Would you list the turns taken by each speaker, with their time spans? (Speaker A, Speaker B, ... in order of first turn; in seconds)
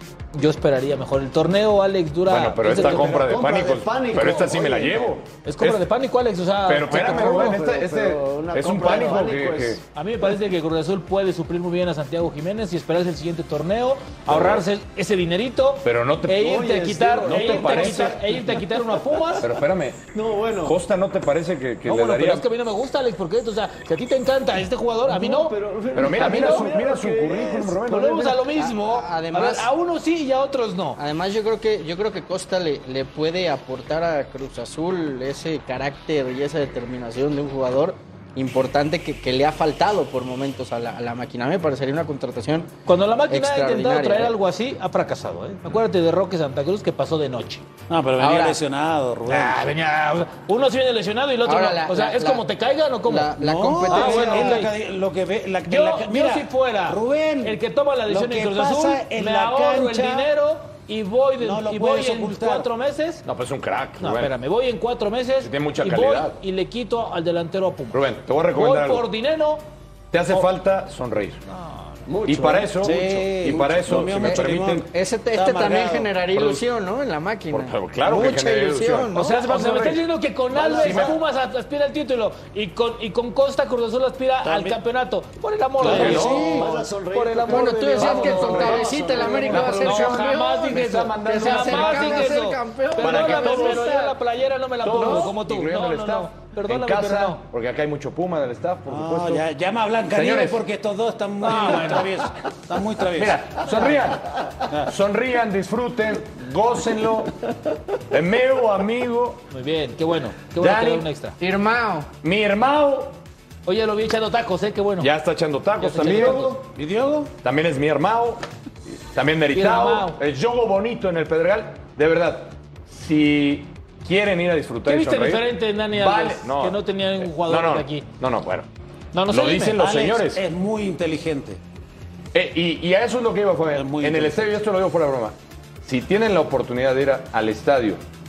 Speaker A: 0.3-3.2, 5.5-7.5, 9.9-19.5, 21.9-26.7, 27.9-31.0, 42.9-47.6, 49.3-53.4, 53.9-54.7, 55.7-63.2, 64.0-68.0, 68.5-69.7, 71.5-72.0, 79.1-97.4, 101.4-102.1, 109.5-111.4, 113.7-115.1, 115.8-116.6, 119.5-120.2, 124.8-128.1, 129.1-129.8
Speaker B: 2.3-5.9, 6.7-9.8, 14.3-14.7, 15.8-16.6, 17.2-18.2, 19.4-20.1, 20.6-22.5, 25.9-28.4, 63.2-64.3, 65.4-66.4, 67.9-69.1, 70.1-71.4, 72.3-74.9, 76.3-76.6, 77.5-80.0, 80.7-81.1, 85.8-86.7, 88.0-92.4, 93.0-94.0, 94.8-99.5, 100.1-100.6, 103.1-107.3, 108.1-109.5, 110.6-111.1, 112.2-113.2, 115.0-116.7, 117.4-128.7, 129.3-130.4, 132.3-138.0
Speaker C: 2.6-5.2, 6.9-9.8, 16.4-18.8, 20.1-20.8, 25.1-27.8, 53.9-54.5, 72.1-74.1, 80.5-81.1, 85.9-89.7
Speaker D: 28.5-29.7, 31.0-42.7, 43.3-44.4, 48.2-48.6, 51.5-52.4, 53.0-54.6, 74.2-79.4, 80.7-81.0, 87.5-94.1, 111.4-112.1
Speaker E: 47.9-49.7, 53.4-60.3, 61.4-62.7, 72.8-76.1, 84.4-84.8, 85.8-86.7, 98.9-103.6, 116.7-117.3, 129.8-131.6, 133.7-134.4